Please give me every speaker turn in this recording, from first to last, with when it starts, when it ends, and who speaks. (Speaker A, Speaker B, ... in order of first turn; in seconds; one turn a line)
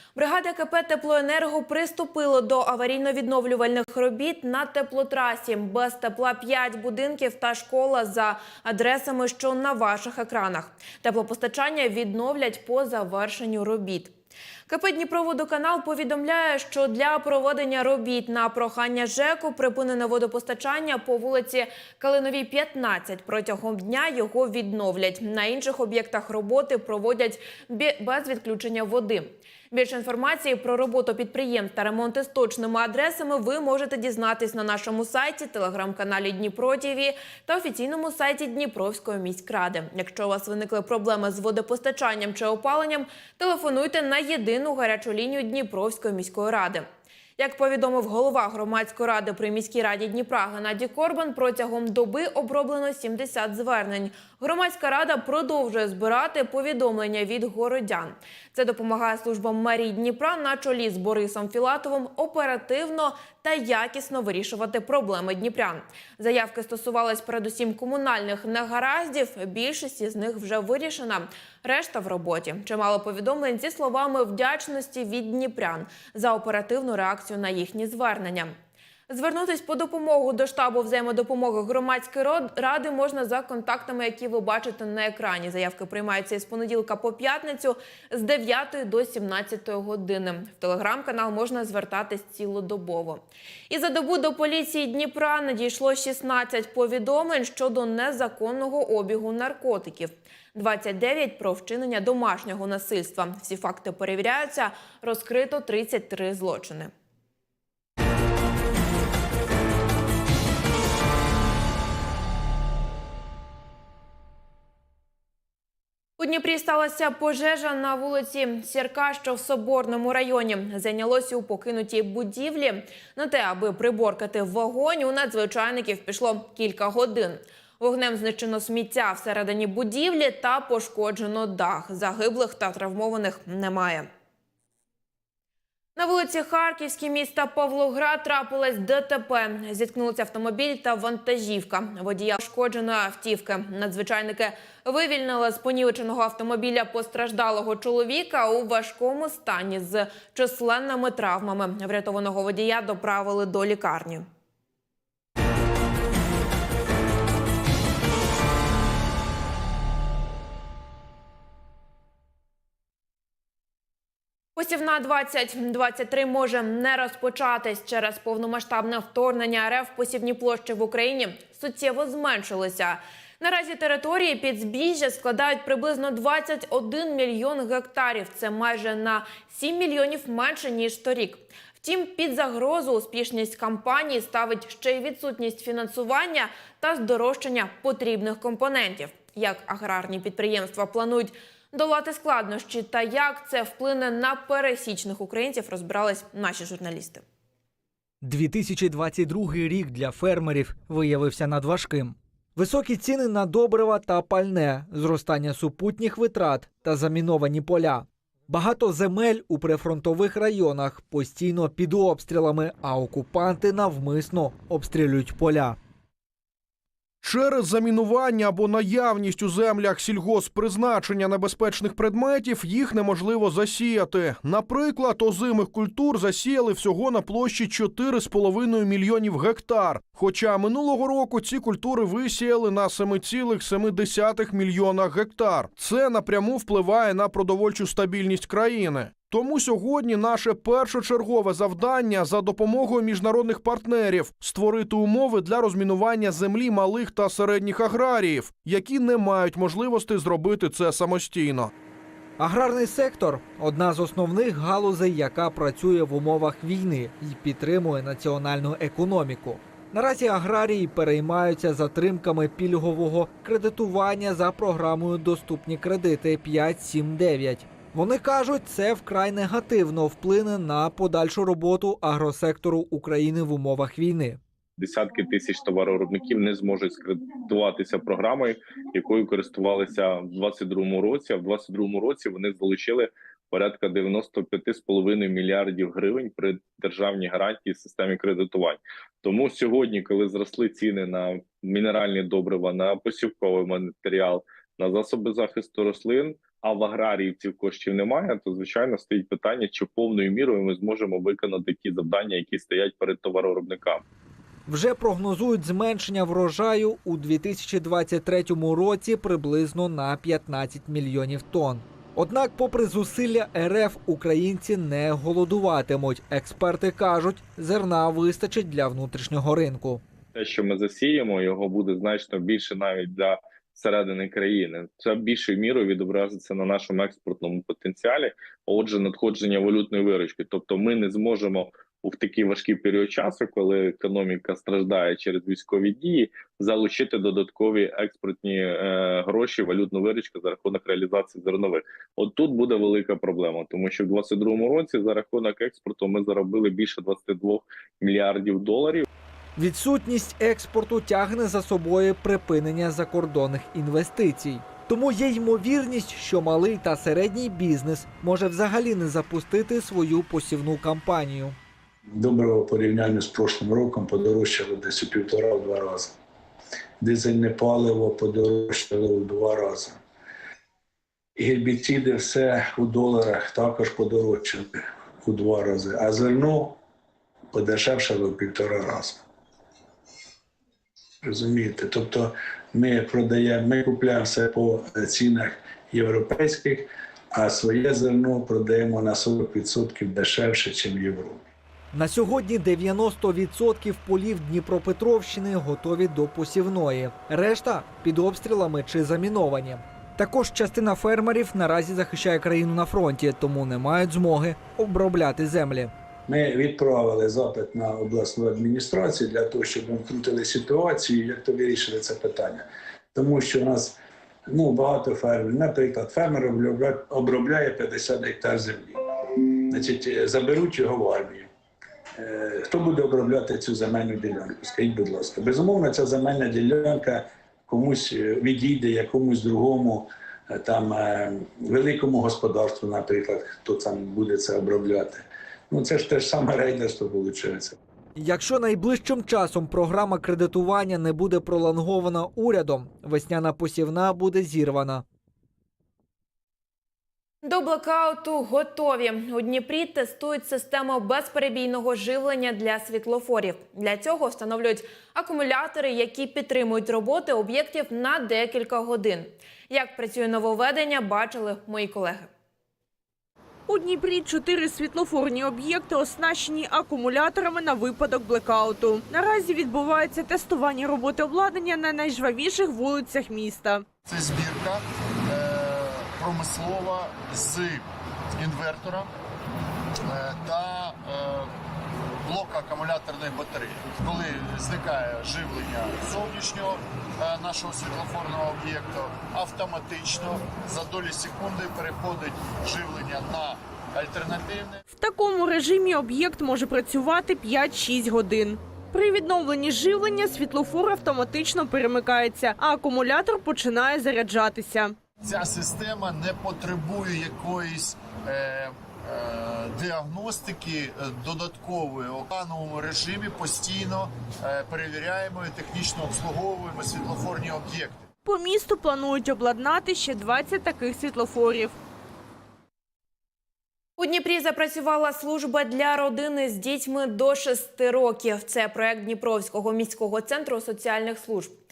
Speaker A: 0.1-14.1
Speaker A: 14.7-46.8
Speaker A: 47.4-78.5
Speaker A: 79.1-106.9
Speaker A: 116.2-134.1
Speaker A: 135.9-154.2
Speaker A: 164.6-197.2
Speaker B: 198.2-215.8
Speaker C: 217.2-251.7
Speaker B: 252.4-274.4
Speaker D: 274.8-304.0
Speaker B: 304.7-320.0
Speaker D: 320.3-349.1
Speaker B: 349.6-361.6
Speaker E: 362.1-366.1
Speaker E: 367.0-370.0
Speaker E: 371.4-374.7
Speaker E: 375.2-376.8
Speaker E: 377.5-379.2
Speaker E: 381.2-391.4
Speaker B: 391.9-405.9
Speaker E: 406.3-414.0
Speaker E: 414.5-419.0
Speaker E: 419.7-421.5
Speaker E: 422.2-437.7
Speaker B: 438.1-445.0
Speaker A: 447.4-462.3
Speaker F: 463.7-473.8
Speaker G: 474.0-479.1
Speaker G: 480.1-481.5
Speaker G: 482.2-494.8
Speaker F: 494.9-504.9
Speaker G: 505.2-518.1
Speaker F: 518.2-521.7
Speaker A: 524.0-531.5